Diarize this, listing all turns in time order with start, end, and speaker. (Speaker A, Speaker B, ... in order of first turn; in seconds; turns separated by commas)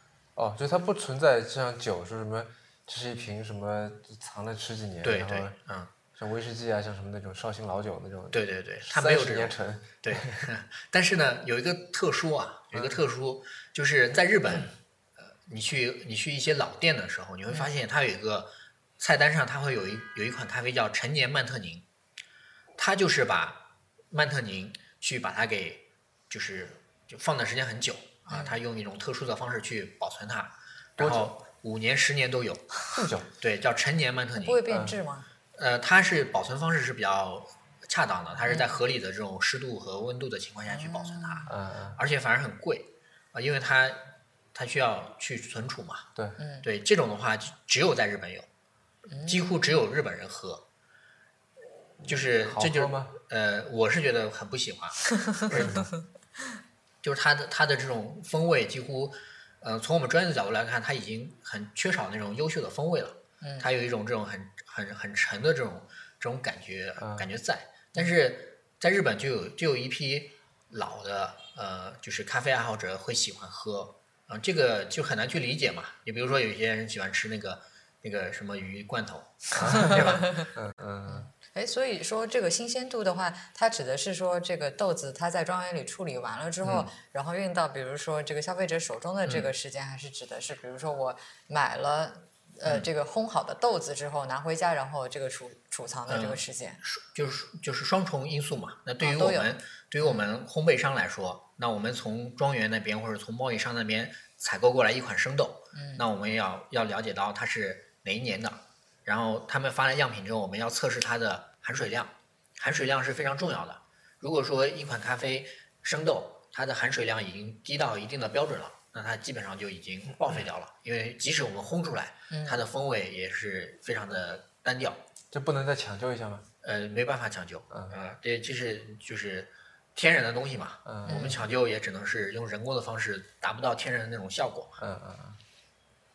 Speaker A: 0.3-5.5, Speaker B: 5.0-5.9, Speaker A: 6.1-10.5, Speaker B: 8.3-21.8, Speaker A: 12.7-13.0, Speaker B: 22.8-34.6, Speaker C: 28.3-28.6, Speaker A: 31.0-31.3, Speaker A: 32.9-33.3, Speaker C: 34.4-35.3, Speaker A: 34.7-35.0, Speaker B: 35.5-46.1, Speaker C: 38.5-38.7, Speaker C: 40.7-41.5, Speaker A: 41.5-42.0, Speaker C: 46.4-46.6, Speaker B: 46.6-48.5, Speaker C: 49.1-49.5, Speaker B: 49.2-50.6, Speaker A: 52.0-53.1, Speaker B: 52.0-55.9, Speaker C: 55.2-55.7, Speaker A: 55.5-55.9, Speaker B: 57.0-80.3, Speaker C: 63.4-63.7, Speaker A: 67.0-67.3, Speaker A: 79.5-81.3, Speaker C: 79.7-80.5, Speaker C: 81.1-96.8, Speaker B: 86.6-86.9, Speaker B: 89.2-89.5, Speaker B: 96.1-125.0, Speaker C: 99.0-100.2, Speaker C: 105.7-106.0, Speaker C: 122.3-122.6, Speaker A: 125.3-126.5, Speaker B: 126.6-134.8, Speaker A: 127.7-128.0, Speaker A: 130.8-131.3, Speaker C: 131.1-131.4, Speaker A: 134.8-135.4